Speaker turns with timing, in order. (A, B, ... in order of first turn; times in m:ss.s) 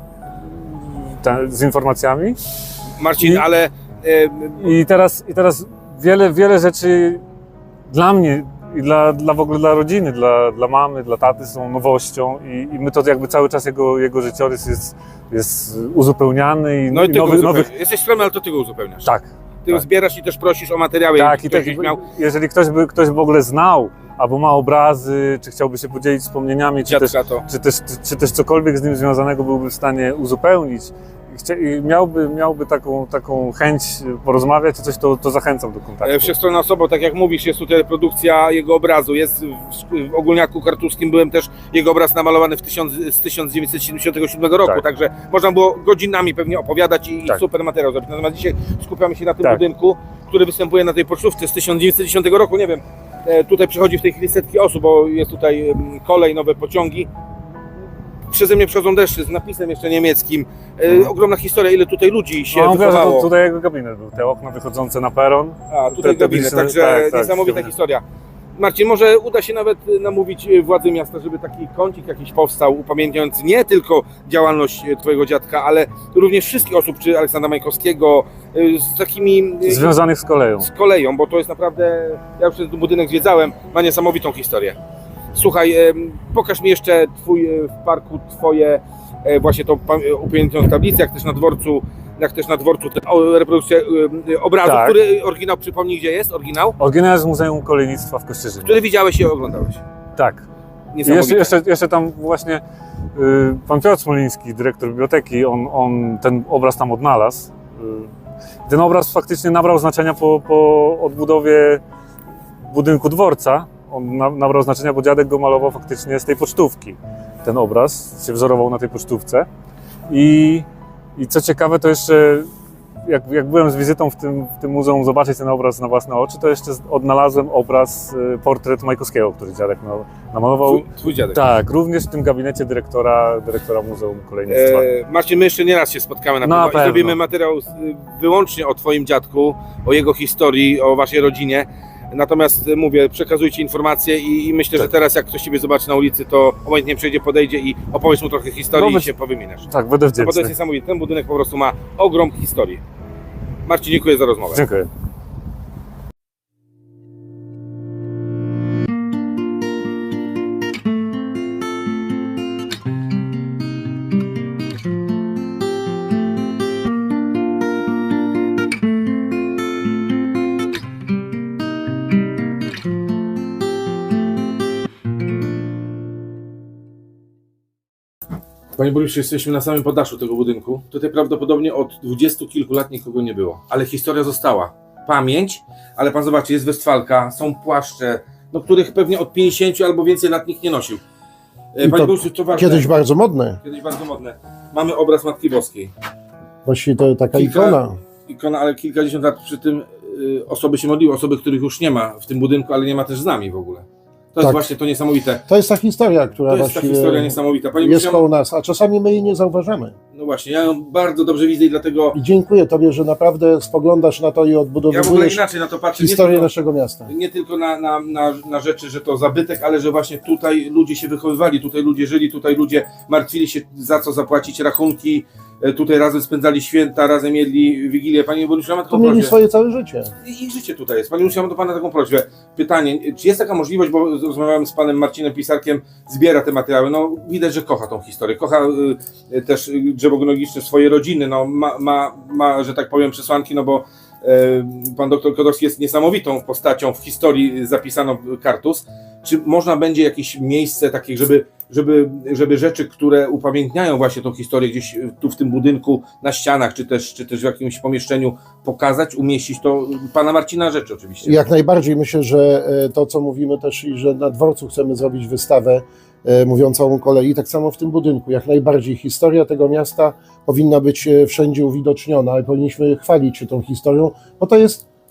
0:00.4-0:02.4 A
0:03.0-0:04.8 B
0:04.6-0:07.2 A
0:07.9-0:17.7 A
0:16.9-0:19.1 B
0:19.0-0:19.8 A
0:19.6-0:22.0 B
0:21.2-0:36.3 A
0:26.8-0:27.4 B
0:36.0-0:57.1 B
0:58.3-1:03.3 B
1:02.5-1:07.7 A
1:05.7-1:08.0 B
1:08.6-1:19.9 B
1:19.6-1:20.7 A
1:20.6-1:24.8 B
1:25.3-1:36.8 B
1:34.6-1:35.0 A
1:36.8-1:38.8 A
1:38.6-1:39.8 B
1:40.2-1:40.4 A
1:40.9-1:41.5 B
1:41.0-1:42.6 A
1:43.1-1:48.1 A
1:48.6-1:51.8 A
1:52.6-1:59.5 A
2:00.1-2:02.5 A
2:03.0-2:14.8 A
2:10.6-2:11.5 B
2:14.5-2:32.8 B
2:16.4-2:17.2 A
2:28.7-2:29.1 A
2:29.7-2:30.5 A
2:33.6-2:34.6 B
2:34.5-2:34.9 A
2:58.8-3:11.0 B
3:11.7-3:12.9 B
3:11.8-3:13.6 C
3:13.6-3:15.9 B
3:16.6-3:18.0 C
3:17.3-3:25.5 B
3:24.4-3:24.7 C
3:25.5-3:29.9 C
3:26.5-3:28.2 B
3:30.1-3:32.2 B
3:32.1-3:35.4 C
3:34.9-3:36.5 B
3:36.0-3:37.1 C
3:37.1-3:49.4 B
3:48.9-3:50.1 C
3:50.2-4:21.5 B
4:21.2-4:34.8 C